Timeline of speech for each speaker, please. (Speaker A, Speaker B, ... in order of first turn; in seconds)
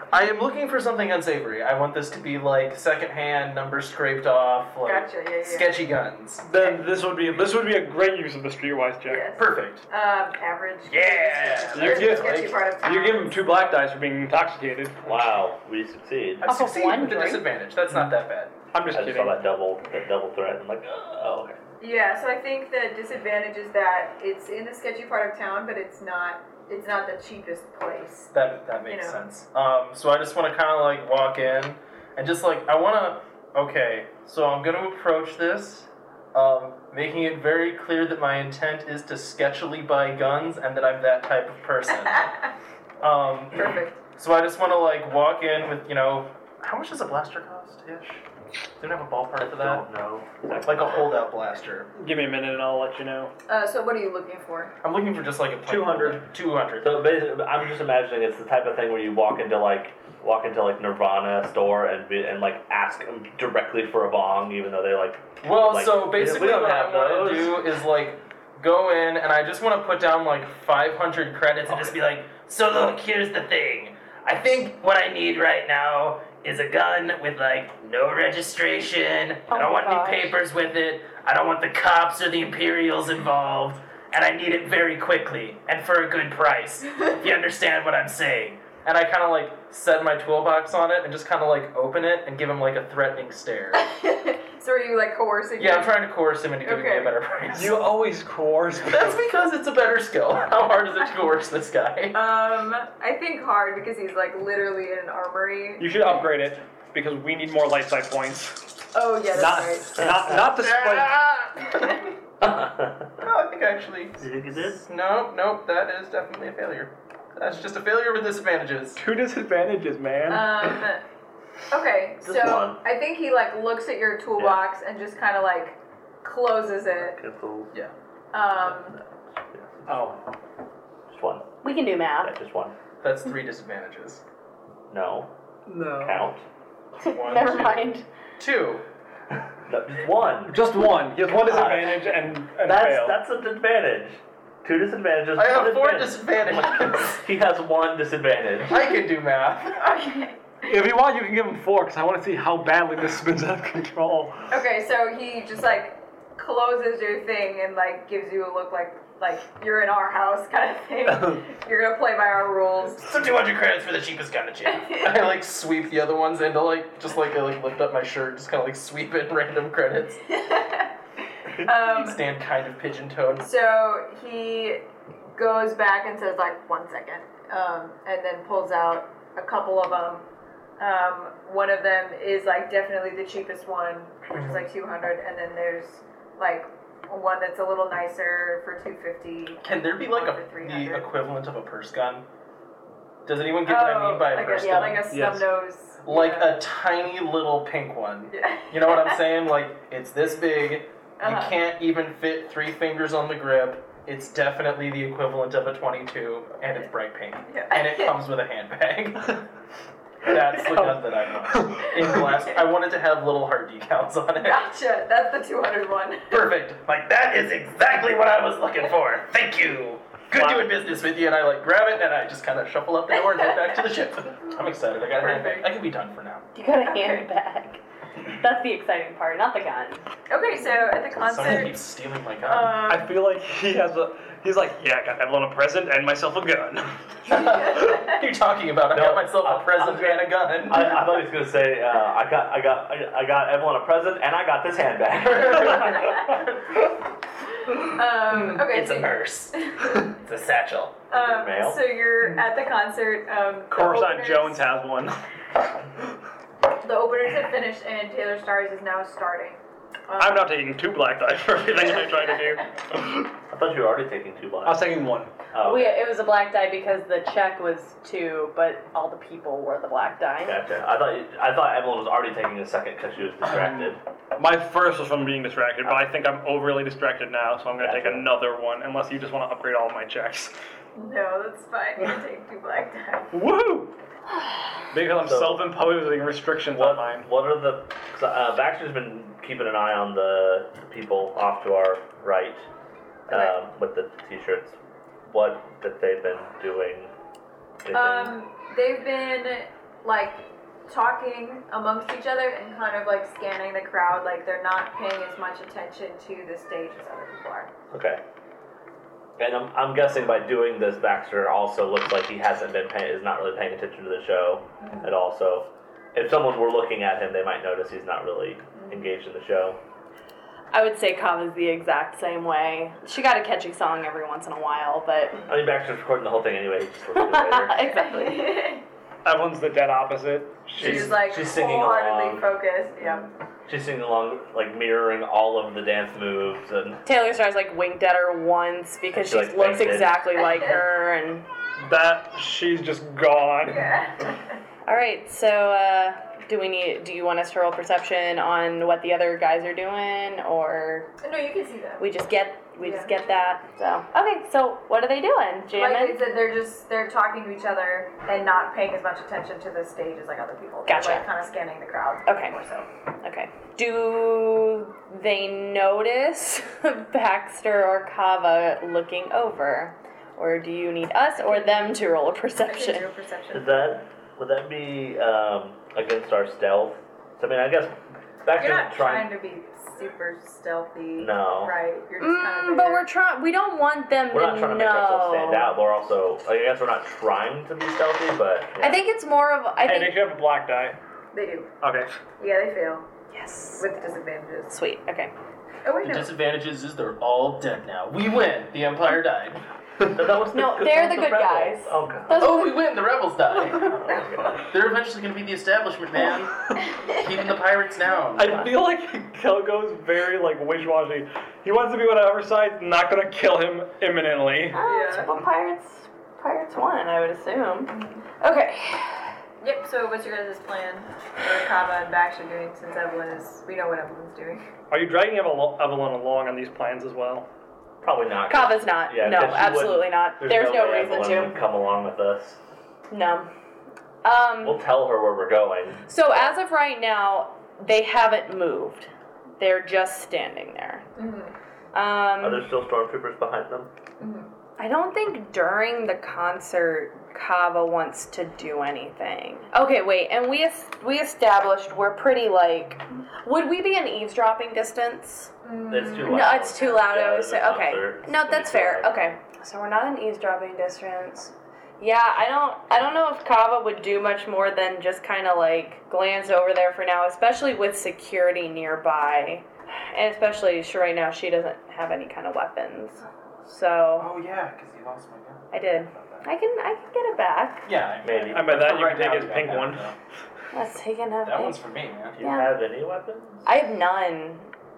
Speaker A: 0.1-6.5, 9.4-9.8, 10.9-12.6, 16.4-18.5, 28.3-42.3, 43.0-48.2, 48.8-49.8, 50.6-51.9, 54.8-56.9, 65.4-93.9, 95.6-97.9, 98.9-102.2, 110.4-112.1, 113.2-114.2, 114.7-119.0, 133.0-134.2, 137.0-138.8, 145.3-147.2, 148.7-149.9, 163.0-170.2, 171.7-173.5, 184.3-184.7, 189.6-192.2, 193.3-195.1, 196.0-209.4, 210.2-214.6, 216.3-226.5, 231.1-232.9, 237.3-241.0, 245.3-246.6, 248.5-251.1, 396.0-399.6, 402.3-408.6, 474.2-476.5, 477.9-480.1, 481.4-482.4
Speaker B: 4.8-5.8, 9.1-13.4, 21.8-28.3, 28.9-29.2, 43.5-44.0, 53.5-54.7, 93.7-96.0, 96.6-97.2, 102.1-105.9, 108.9-110.1, 120.3-121.0, 121.7-127.2, 128.3-129.0, 149.8-150.4, 154.5-163.1, 164.7-165.3, 170.3-170.9, 171.6-172.2, 173.4-180.2, 180.8-191.1, 193.7-196.6, 198.3-199.2, 201.2-201.6, 207.5-208.2, 214.4-216.5, 223.3-223.8, 225.2-225.7, 226.8-227.3, 230.3-231.8, 232.4-233.2, 237.7-238.0, 247.7-250.1, 251.1-254.7, 256.8-260.5, 280.9-283.3, 297.9-307.7, 314.8-315.1, 318.8-319.1, 327.8-328.8, 330.8-333.3, 343.7-344.6, 351.2-352.1, 352.8-353.2, 355.7-362.9, 371.4-372.0, 372.6-373.9, 378.6-383.1, 391.3-391.7, 392.4-393.1, 393.8-394.7, 395.8-396.3, 414.8-415.3, 417.9-418.2, 419.6-424.6, 441.2-441.5, 444.2-444.5, 455.6-457.0
Speaker C: 6.4-9.3, 11.7-15.2, 18.7-19.4, 52.0-53.3, 55.7-56.2, 97.5-99.2, 105.8-108.7, 109.3-111.2, 119.0-120.8, 129.9-130.2, 135.7-136.2, 140.5-143.2, 150.7-154.4, 195.1-195.5, 210.7-211.0, 211.6-212.1, 220.3-220.7, 232.9-237.2, 253.7-255.2, 260.2-262.7, 264.6-265.3, 274.4-280.5, 283.3-283.9, 284.9-287.3, 329.2-331.2, 341.8-343.9, 389.8-391.0, 391.8-392.2, 408.4-414.8, 424.9-427.5, 478.5-480.1
Speaker D: 15.1-16.4, 18.9-21.6, 49.4-51.1, 56.8-67.7, 112.4-113.2, 114.2-114.8, 122.2-122.8, 127.1-127.7, 128.7-130.2, 131.1-131.5, 132.2-132.8, 134.9-135.3, 135.9-136.4, 139.7-140.6, 141.3-148.8, 238.9-246.3, 251.2-251.8, 263.5-264.9, 265.5-266.1, 270.4-274.0, 277.8-278.3, 285.2-285.7, 286.7-292.6, 293.3-294.8, 295.3-297.1, 297.8-298.4, 307.9-308.2, 309.4-319.8, 325.5-327.8, 330.8-332.5, 333.7-337.0, 339.1-340.2, 373.5-379.3, 381.2-381.7, 384.3-389.0, 400.1-402.6, 403.8-404.6, 428.0-432.6, 434.6-436.1, 442.4-443.9, 455.9-459.4, 478.2-478.7, 482.4-483.7
Speaker E: 16.4-17.5, 79.5-80.4, 131.6-132.3, 137.0-138.1, 194.5-195.0, 226.6-230.0, 265.6-270.6, 320.7-325.5, 327.2-328.7, 337.1-341.5, 344.9-351.1, 352.0-356.2, 360.9-361.3, 362.3-362.6, 363.2-373.1, 382.2-385.8, 388.8-390.2, 393.3-394.0, 394.7-395.3, 400.5-402.9, 414.7-419.3, 428.5-431.6, 433.1-433.5, 434.2-434.8, 436.1-441.1, 441.9-442.6, 444.8-455.5, 456.2-474.3, 475.7-477.9, 480.7-481.8, 482.4-482.7, 483.7-484.7